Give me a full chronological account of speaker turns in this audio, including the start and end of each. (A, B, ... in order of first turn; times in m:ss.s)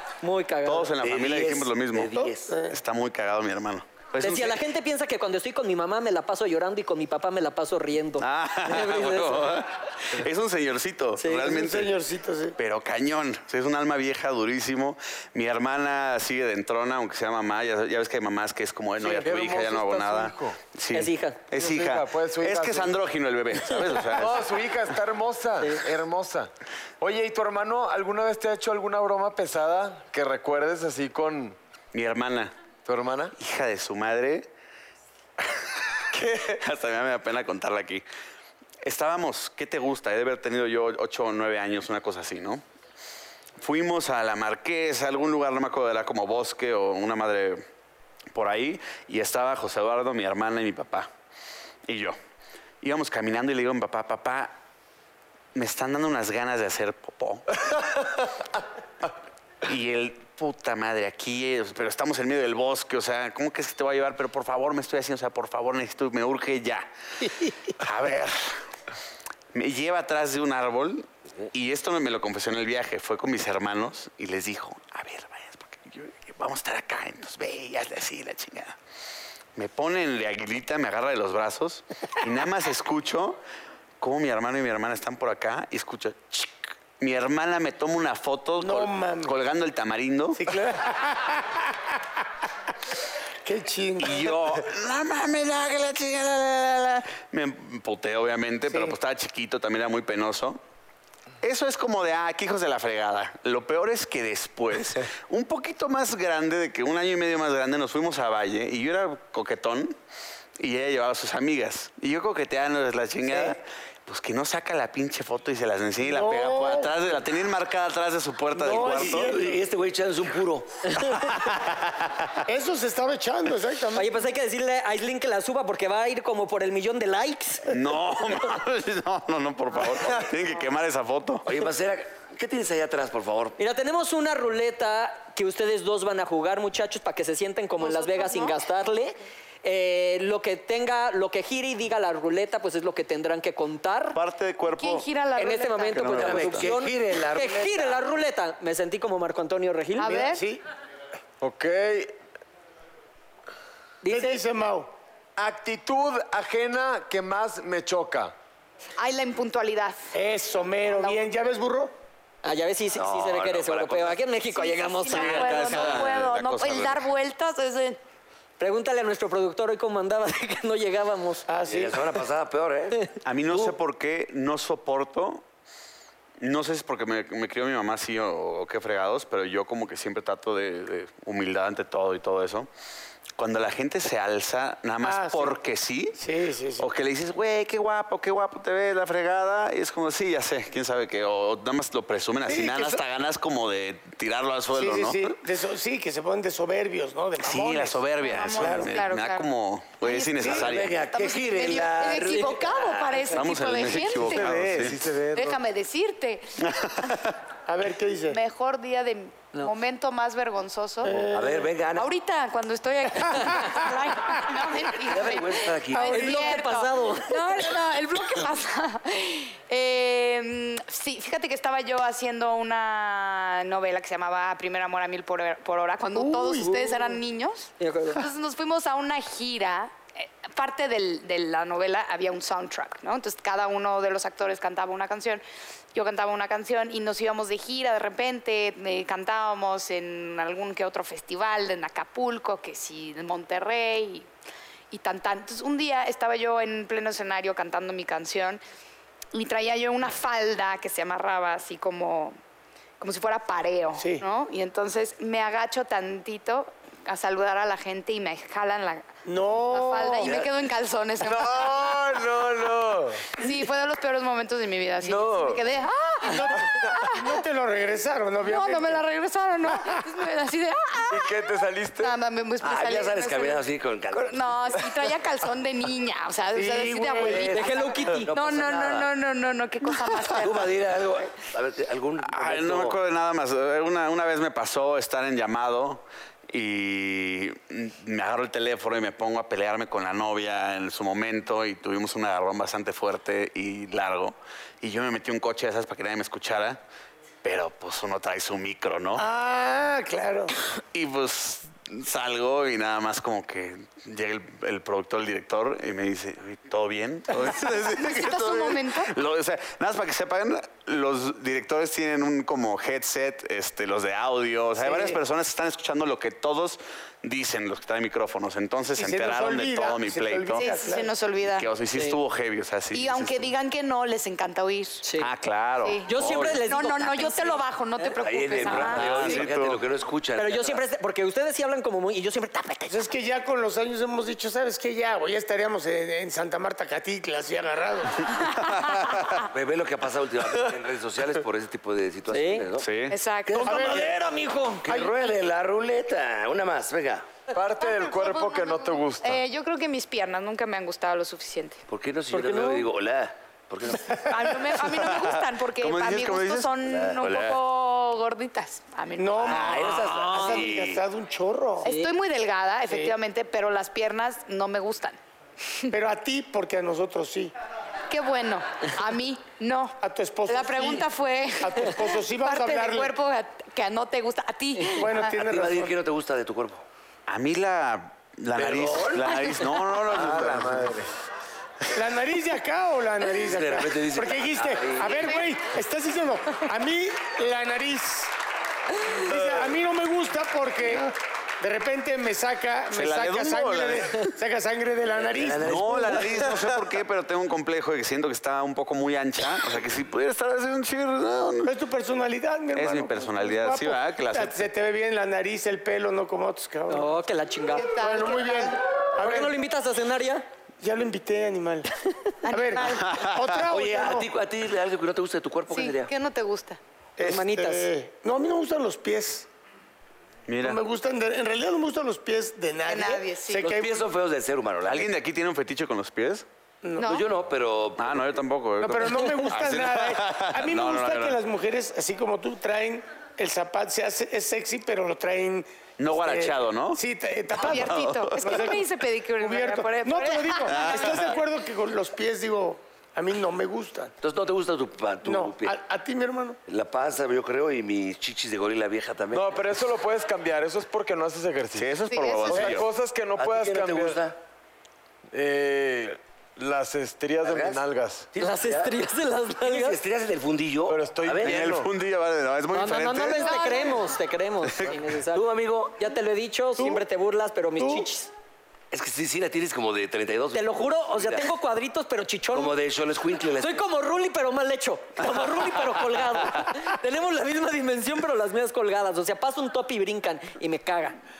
0:00.2-0:00.9 A
0:00.6-0:04.6 B
0:01.0-0:02.6 C
0:02.1-0:02.7 D
0:04.2-0:09.6 A
0:08.2-0:11.9 B
0:11.2-0:11.5 A
0:11.3-0:12.6 D
0:12.6-0:24.5 B
0:19.0-0:20.6 E
0:20.9-0:21.4 A
0:21.5-0:23.0 E
0:24.1-0:26.5 E
0:27.0-0:31.6 E
0:31.9-0:32.5 B
0:32.9-0:33.3 E
0:33.4-0:34.5 B
0:36.1-0:38.0 B
0:38.8-0:42.6 B
0:43.6-0:47.6 B
0:48.3-0:51.1 B
0:51.9-0:52.2 B
0:52.8-0:54.6 B
0:55.6-0:57.6 B
0:59.6-1:06.9 B
1:07.7-1:08.6 B
1:09.5-1:18.8 B
1:19.6-1:23.4 B
1:24.0-1:30.4 B
1:28.6-1:29.3 D
1:30.4-1:32.0 D
1:33.4-1:34.4 D
1:34.0-1:40.6 B
1:38.7-1:39.0 D
1:41.4-1:50.0 B
1:50.6-1:59.3 B
1:56.0-1:57.1 D
1:58.5-1:59.6 D
1:58.7-2:00.7 C
2:01.1-2:02.4 B
2:02.4-2:04.1 D
2:04.0-2:07.8 A
2:07.7-2:11.5 B
2:11.4-2:13.6 C
2:13.6-2:24.2 A
2:17.8-2:18.6 F
2:24.1-2:25.1 B
2:24.6-2:26.4 F
2:25.4-2:30.1 A
2:25.9-2:26.7 B
2:26.2-2:28.0 C
2:30.0-2:30.4 F
2:30.0-2:30.6 D
2:31.4-2:32.2 E
2:34.0-2:34.4 A
2:34.1-2:34.9 D
2:35.4-2:38.3 E
2:39.0-2:40.1 F
2:40.1-2:41.9 D
2:42.4-2:46.1 A
2:42.9-2:44.2 C
2:44.6-2:48.0 F
2:45.1-2:47.0 B
2:48.6-2:51.4 A
2:51.5-2:52.0 D
2:51.6-2:53.1 C
2:53.2-2:55.4 B
2:56.4-3:02.7 B
3:03.4-3:06.2 B
3:05.0-3:05.6 D
3:06.2-3:06.9 D
3:06.8-3:15.4 B
3:12.5-3:13.0 D
3:14.7-3:18.0 D
3:17.4-3:21.0 B
3:18.2-3:19.5 F
3:18.6-3:19.0 D
3:20.0-3:24.6 F
3:20.5-3:23.2 C
3:23.3-3:25.0 B
3:24.2-3:25.6 E
3:24.5-3:24.9 D
3:25.3-3:26.6 F
3:26.6-3:27.4 B
3:27.7-3:28.4 D
3:28.3-3:31.3 F
3:31.0-3:31.7 D
3:31.3-3:32.1 C
3:32.0-3:55.4 F
3:35.1-3:36.6 C
3:36.0-3:37.5 A
3:46.1-3:47.1 D
3:47.8-3:48.2 A
3:55.9-4:04.3 F
4:04.9-4:08.6 F
4:09.3-4:12.4 F
4:13.0-4:19.1 F
4:14.0-4:14.3 D
4:19.3-4:20.4 D
4:19.6-4:22.0 F
4:21.2-4:23.5 E
4:23.4-4:27.3 F
4:25.0-4:25.6 E
4:26.2-4:29.0 D
4:26.7-4:27.0 E
4:28.4-4:31.3 F
4:29.7-4:30.0 D
4:31.1-4:32.2 E
4:32.0-4:40.7 F
4:32.6-4:34.4 C
4:36.5-4:37.5 D
4:37.2-4:39.1 C
4:37.4-4:38.3 A
4:40.4-4:43.0 C
4:42.2-4:56.8 B
4:57.4-4:59.3 B
4:59.2-5:00.5 D
5:00.9-5:20.6 B
5:08.0-5:09.2 F
5:14.8-5:15.2 D
5:19.0-5:21.1 D
5:20.6-5:21.7 F
5:21.5-5:23.5 B
5:21.9-5:22.2 A
5:22.9-5:25.0 F
5:25.0-5:25.3 A
5:25.2-5:26.6 B
5:25.8-5:29.5 F
5:26.1-5:27.6 A
5:28.2-5:30.8 C
5:28.7-5:29.0 A
5:28.7-5:29.8 B
5:30.4-5:33.0 A
5:32.9-5:38.3 D
5:38.6-5:39.5 B
5:39.5-5:44.2 C
5:42.3-5:42.7 A
5:42.8-5:43.2 B
5:43.1-5:44.0 F
5:43.6-5:44.2 D
5:43.6-5:44.8 A
5:44.8-5:47.2 C
5:47.5-5:49.4 E
5:47.8-5:51.8 F
5:51.9-5:54.3 C
5:52.3-5:52.9 A
5:54.1-5:59.7 F
5:55.1-5:57.6 B
5:56.8-5:57.2 C
5:59.2-6:01.9 D
5:59.4-6:01.0 C
5:59.8-6:00.1 B
6:00.1-6:00.6 A
6:01.8-6:05.9 F
6:01.8-6:02.1 A
6:05.9-6:07.5 D
6:08.1-6:15.4 F
6:10.0-6:13.1 D
6:14.9-6:16.0 D
6:15.4-6:16.8 C
6:17.3-6:20.8 B
6:18.6-6:20.8 C
6:20.1-6:21.1 E
6:21.9-6:28.3 D
6:23.4-6:25.2 C
6:29.2-6:36.4 D
6:32.9-6:34.3 B
6:35.3-6:36.6 C
6:35.6-6:41.7 B
6:41.6-6:47.2 D
6:42.7-6:44.7 B
6:46.9-6:47.9 A
6:47.7-6:48.8 F
6:47.9-6:49.6 D
6:49.2-6:50.4 A
6:50.8-6:51.9 D
6:52.4-6:53.1 F
6:52.5-6:54.3 D
6:53.0-6:53.7 B
6:53.7-6:56.1 C
6:55.7-6:56.8 F
6:57.2-6:59.5 D
6:57.2-6:57.9 A
7:00.5-7:00.8 B
7:00.6-7:04.0 D
7:02.9-7:03.8 F
7:03.6-7:05.1 C
7:04.8-7:06.4 B
7:06.8-7:07.2 D
7:07.0-7:07.3 F
7:07.0-7:08.4 C
7:08.0-7:11.4 B
7:08.8-7:24.1 D
7:16.0-7:17.0 B
7:17.5-7:21.3 F
7:17.7-7:18.5 B
7:20.7-7:21.2 B
7:24.2-7:25.8 C
7:25.2-7:26.6 D
7:26.7-7:29.6 C
7:29.3-7:31.9 E
7:31.7-7:32.9 B
7:32.1-7:32.5 F
7:32.5-7:34.2 E
7:32.5-7:32.8 C
7:33.4-7:34.4 C
7:35.3-7:38.3 E
7:37.4-7:37.8 C
7:38.3-7:39.0 C
7:38.4-7:40.0 A
7:39.6-7:41.7 C
7:40.9-7:41.9 E
7:41.4-7:43.6 B
7:42.7-7:48.3 A
7:43.5-7:44.0 F
7:44.6-7:45.0 B
7:45.3-7:46.0 C
7:47.8-7:48.1 D
7:48.9-7:51.5 C
7:50.5-7:52.7 A
7:52.5-7:53.8 C
7:53.6-8:01.2 A